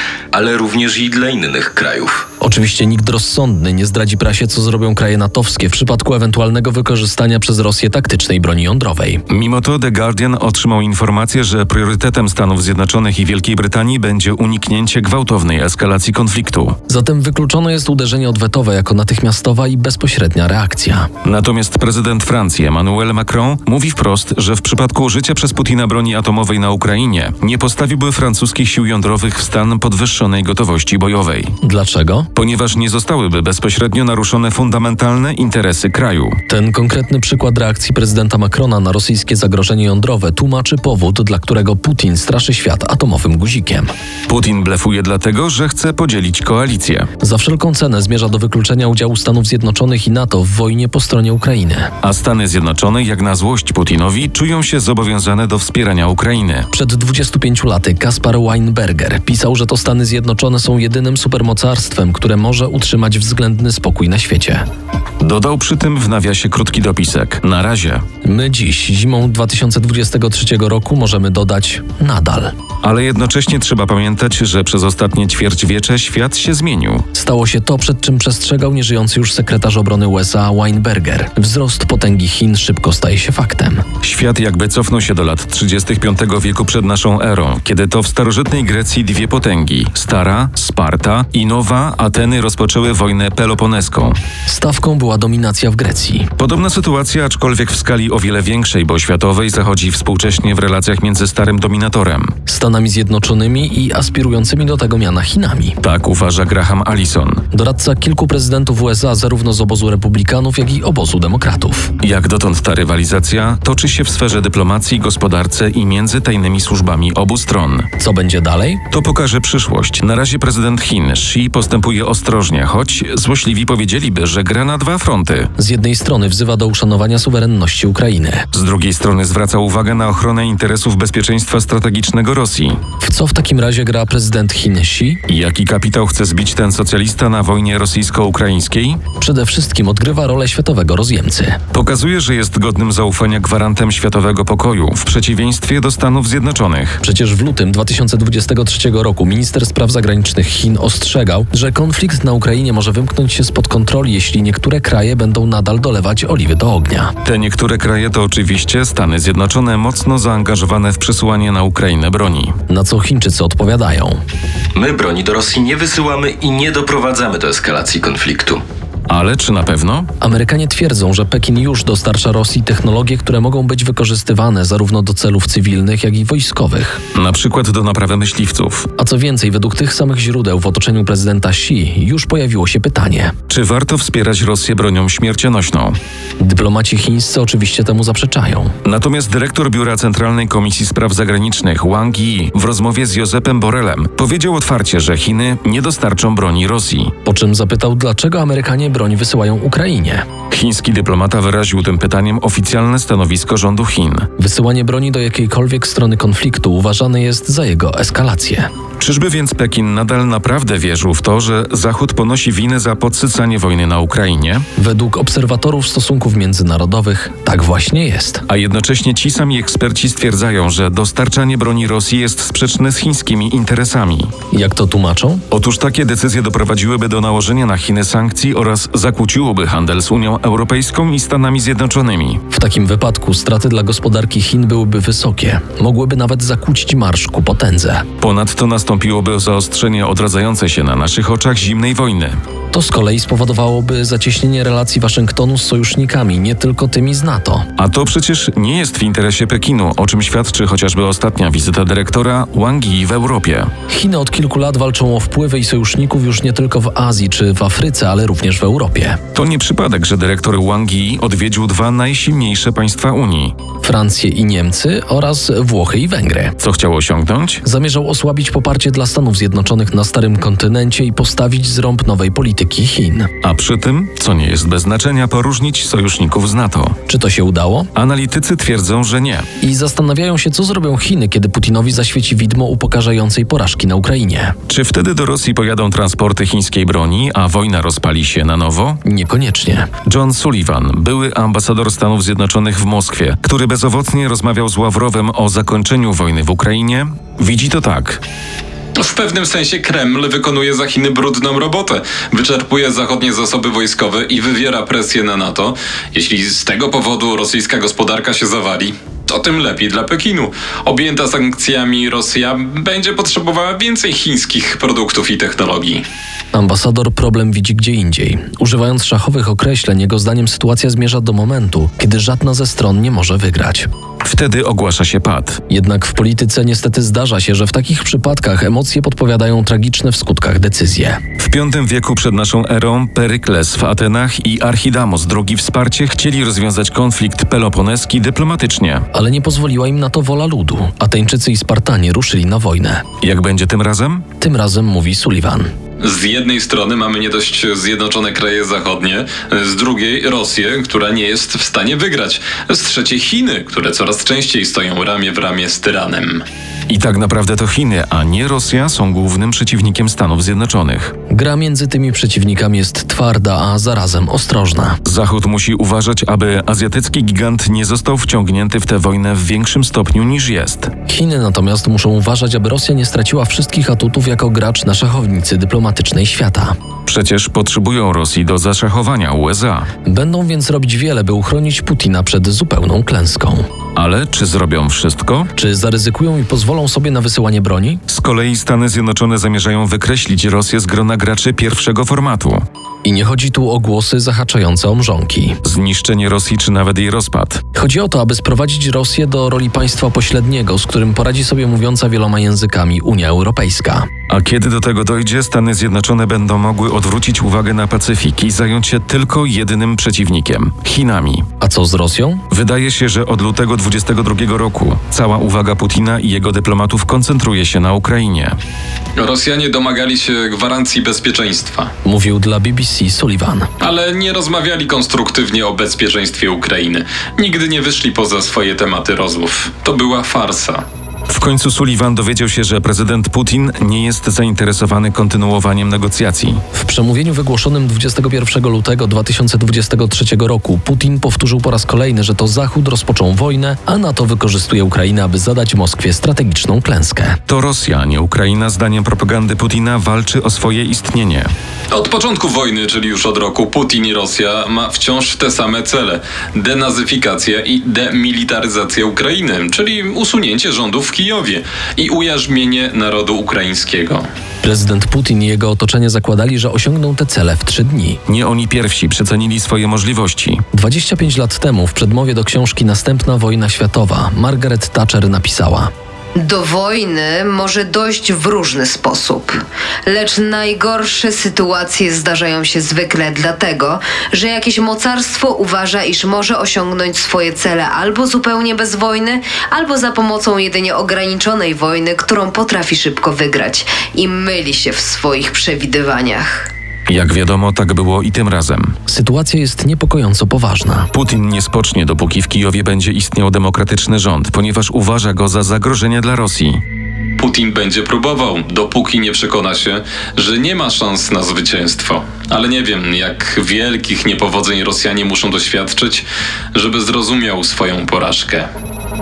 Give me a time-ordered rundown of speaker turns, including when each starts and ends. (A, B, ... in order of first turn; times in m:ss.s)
0:00.3-0:02.2 A
0:02.4-0:09.2 B
0:09.3-0:16.8 C
0:16.9-0:21.1 B
0:21.2-0:31.5 C
0:31.6-0:32.3 B
0:32.4-0:36.4 C
0:36.5-0:43.9 B
0:44.3-0:47.1 C
0:47.2-0:51.9 B
0:52.0-0:56.7 C
0:56.7-1:04.6 B
1:05.2-1:08.0 C
1:08.2-1:12.5 B
1:12.8-1:17.0 C
1:17.2-1:23.8 B
1:24.0-1:34.2 C
1:34.5-1:36.3 B
1:36.4-1:42.3 C
1:42.5-1:45.8 B
1:45.8-1:47.4 C
1:47.5-1:51.9 B
1:52.0-1:57.9 C
1:58.0-1:58.8 B
1:58.9-2:05.5 C
2:05.6-2:08.5 B
2:08.5-2:12.8 C
2:13.0-2:15.2 B
2:15.3-2:19.0 C
2:19.2-2:21.6 B
2:21.7-2:27.0 C
2:27.0-2:37.1 B
2:37.2-2:42.6 C
2:42.7-2:44.2 B
2:44.8-2:48.6 A
2:49.1-2:50.1 C
2:50.2-2:57.0 B
2:57.2-2:58.9 C
2:59.0-3:03.4 B
3:03.5-3:06.0 C
3:06.4-3:08.7 B
3:08.9-3:17.1 C
3:17.2-3:20.3 B
3:20.5-3:24.3 C
3:24.4-3:28.7 B
3:29.0-3:34.7 C
3:34.8-3:38.4 B
3:38.5-3:44.3 C
3:44.5-3:45.4 B
3:45.5-3:52.4 C
3:52.5-3:58.1 B
3:58.2-4:02.4 C
4:02.7-4:07.6 B
4:07.8-4:13.7 C
4:13.9-4:19.2 B
4:19.4-4:23.6 C
4:23.8-4:26.6 B
4:26.6-4:27.6 C
4:27.6-4:33.3 B
4:33.4-4:37.0 C
4:37.1-4:37.9 B
4:38.0-4:39.5 C
4:39.6-4:44.6 B
4:44.7-4:49.0 C
4:49.0-4:49.9 B
4:50.1-4:58.2 C
4:59.0-5:16.0 D
5:16.5-5:23.9 B
5:24.2-5:25.6 C
5:25.7-5:31.2 B
5:31.4-5:39.0 C
5:39.1-5:43.0 B
5:43.2-5:44.2 C
5:44.4-5:45.7 B
5:46.0-5:56.4 D
5:56.9-6:01.1 C
6:01.3-6:05.0 B
6:05.0-6:10.9 C
6:11.1-6:16.8 B
6:17.1-6:19.9 C
6:20.1-6:23.7 B
6:24.0-6:25.5 C
6:25.6-6:28.0 B
6:28.1-6:32.6 C
6:33.0-6:35.6 B
6:35.6-6:37.6 C
6:37.8-6:44.1 B
6:44.3-6:51.4 C
6:51.6-6:52.4 B
6:52.5-6:58.6 C
6:59.2-7:01.9 D
7:02.0-7:03.7 B
7:03.8-7:10.8 D
7:11.3-7:16.6 C
7:16.8-7:27.4 B
7:27.5-7:31.5 C
7:31.9-7:44.2 D
7:44.6-7:48.2 B
7:48.3-7:50.6 C
7:50.7-7:55.9 B
7:56.4-8:16.7 E
8:17.1-8:19.0 C
8:19.1-8:21.1 B
8:21.1-8:26.8 C
8:27.4-8:38.7 D